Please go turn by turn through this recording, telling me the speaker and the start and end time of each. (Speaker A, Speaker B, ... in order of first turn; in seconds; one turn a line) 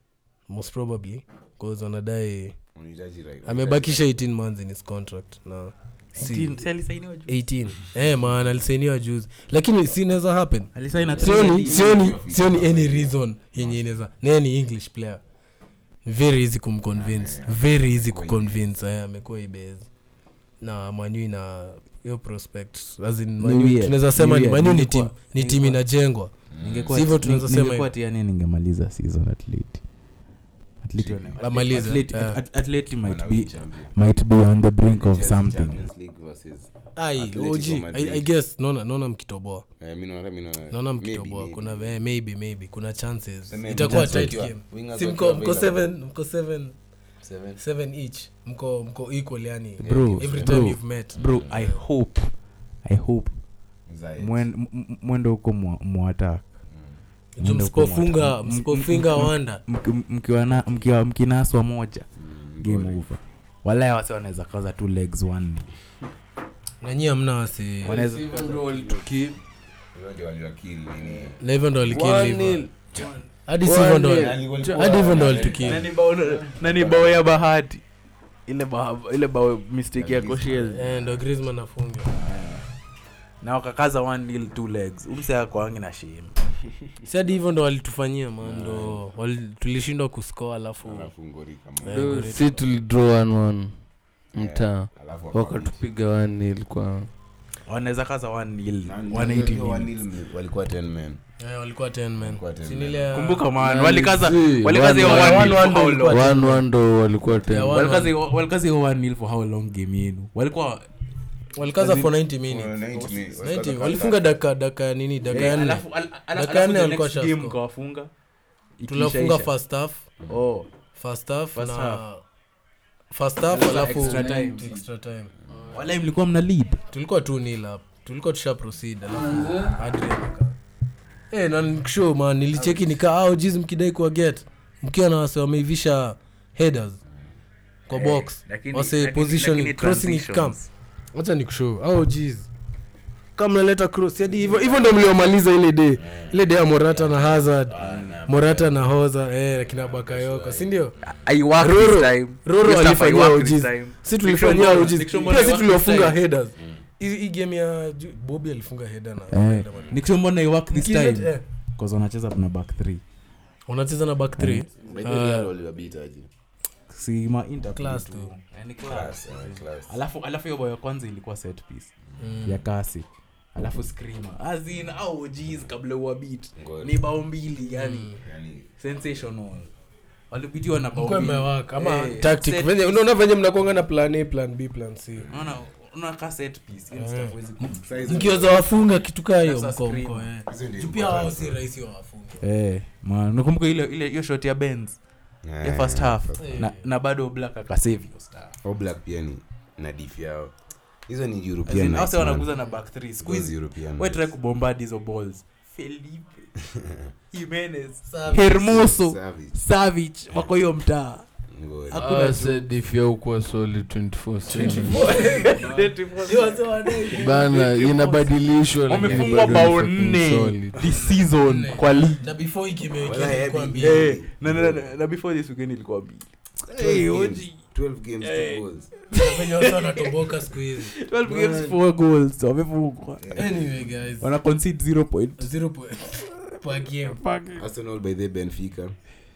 Speaker A: 0.5-2.6
Speaker B: 2.8-4.1
Speaker A: 3.5-6.7
Speaker C: 6.2-7.4
Speaker A: 7.3-15.2
Speaker C: 10.8-11.9
Speaker B: 10.9-13.8
Speaker A: 16.1-19.9
Speaker B: 16.9-18.6
Speaker A: 20.6-26.3
Speaker C: 23.4-25.8
Speaker B: 26.5-27.1
Speaker C: 26.6-29.8
Speaker A: 26.9-27.9
Speaker C: 30.8-35.8
Speaker B: 31.0-32.0
Speaker A: 31.4-32.4
Speaker B: 33.0-33.9
Speaker B: 34.9-38.3
Speaker A: 37.0-39.7
Speaker B: 39.8-42.0
Speaker A: 40.7-46.8
Speaker B: 43.5-45.8
Speaker C: 43.8-44.5
Speaker B: 47.2-47.6
Speaker A: 47.6-51.8
Speaker B: 49.8-51.6
Speaker C: 49.8-52.3
Speaker C: 52.9-53.3
Speaker B: 53.9-54.5
Speaker C: 54.2-56.5
Speaker B: 56.7-57.0
Speaker A: 57.4-59.6
Speaker C: 57.4-62.1
Speaker A: 60.5-60.9
Speaker B: 62.2-63.0
Speaker C: 62.6-65.7
Speaker A: 66.8-68.0
Speaker D: 67.8-69.4
Speaker C: 67.8-68.8
Speaker B: 69.9-73.1
Speaker A: 71.4-72.7
Speaker C: 72.9-73.3
Speaker A: 73.5-75.8
Speaker D: 73.6-75.7
Speaker B: 74.1-75.9
Speaker C: 75.6-77.8
Speaker B: 76.7-77.2
Speaker C: 78.5-80.9
Speaker B: 80.0-81.2
Speaker A: 80.7-82.2
Speaker C: 82.2-82.5
Speaker C: 83.4-86.3
Speaker A: 87.0-91.1
Speaker B: 88.4-89.0
Speaker B: 90.8-92.3
Speaker A: 91.8-92.7
Speaker D: 91.9-93.7
Speaker D: 94.3-97.1
Speaker B: 94.4-95.8
Speaker C: 97.7-99.9
Speaker B: 98.8-101.2
Speaker A: 101.4-103.5
Speaker B: 102.2-103.2
Speaker C: 103.1-106.4
Speaker D: 103.6-107.9
Speaker A: 105.0-106.6
Speaker A: 107.5-108.2
Speaker C: 107.6-110.9
Speaker A: 111.6-115.8
Speaker B: 111.8-114.3
Speaker C: 115.3-118.1
Speaker A: 116.3-117.6
Speaker C: 118.8-119.5
Speaker A: 118.9-120.1
Speaker C: 120.3-120.7
Speaker A: 121.0-122.2
Speaker C: 121.5-122.0
Speaker A: 123.1-125.3
Speaker C: 123.5-124.8
Speaker D: 123.6-124.8
Speaker D: 125.5-126.0
Speaker C: 125.7-126.8
Speaker A: 126.9-130.6
Speaker D: 129.1-129.8
Speaker A: 131.3-137.0
Speaker C: 132.6-132.9
Speaker A: 137.9-140.6
Speaker C: 137.9-140.7
Speaker A: 141.2-142.5
Speaker A: 143.4-150.9
Speaker B: 146.0-146.4
Speaker B: 146.9-148.8
Speaker B: 149.6-151.2
Speaker C: 151.0-156.2
Speaker A: 151.6-160.0
Speaker B: 156.6-156.8
Speaker C: 159.3-163.0
Speaker A: 160.7-161.4
Speaker A: 163.7-165.5
Speaker C: 164.4-164.7
Speaker B: 164.8-166.3
Speaker C: 166.9-171.9
Speaker A: 167.7-168.3
Speaker B: 168.8-170.0
Speaker A: 172.2-172.6
Speaker C: 172.4-178.2
Speaker B: 176.6-177.0
Speaker A: 177.7-178.2
Speaker B: 178.2-178.7
Speaker C: 178.8-179.7
Speaker C: 180.3-183.1
Speaker A: 180.9-185.3
Speaker B: 185.2-185.6
Speaker C: 185.3-188.3
Speaker A: 186.9-192.5
Speaker B: 187.7-188.6
Speaker C: 189.4-190.3
Speaker B: 190.5-191.6
Speaker C: 192.4-195.0
Speaker B: 195.4-196.7
Speaker C: 195.6-198.6
Speaker A: 196.4-196.8
Speaker B: 198.6-200.5
Speaker B: 201.1-202.5
Speaker C: 201.7-206.5
Speaker B: 203.2-204.3
Speaker B: 206.6-207.1
Speaker C: 207.3-211.3
Speaker A: 208.1-208.6
Speaker B: 208.2-209.6
Speaker B: 211.5-212.2
Speaker C: 211.9-212.7
Speaker D: 211.9-215.6
Speaker A: 214.5-217.6
Speaker C: 214.6-218.3
Speaker D: 217.1-220.8
Speaker C: 218.9-222.2
Speaker A: 219.0-219.7
Speaker A: 220.9-224.2
Speaker B: 223.0-224.9
Speaker C: 223.8-227.6
Speaker B: 226.7-228.9
Speaker C: 228.2-233.6
Speaker A: 229.1-231.8
Speaker B: 233.2-233.7
Speaker A: 233.3-234.3
Speaker C: 234.2-235.5
Speaker A: 235.4-237.2
Speaker C: 237.0-237.6
Speaker B: 237.6-239.0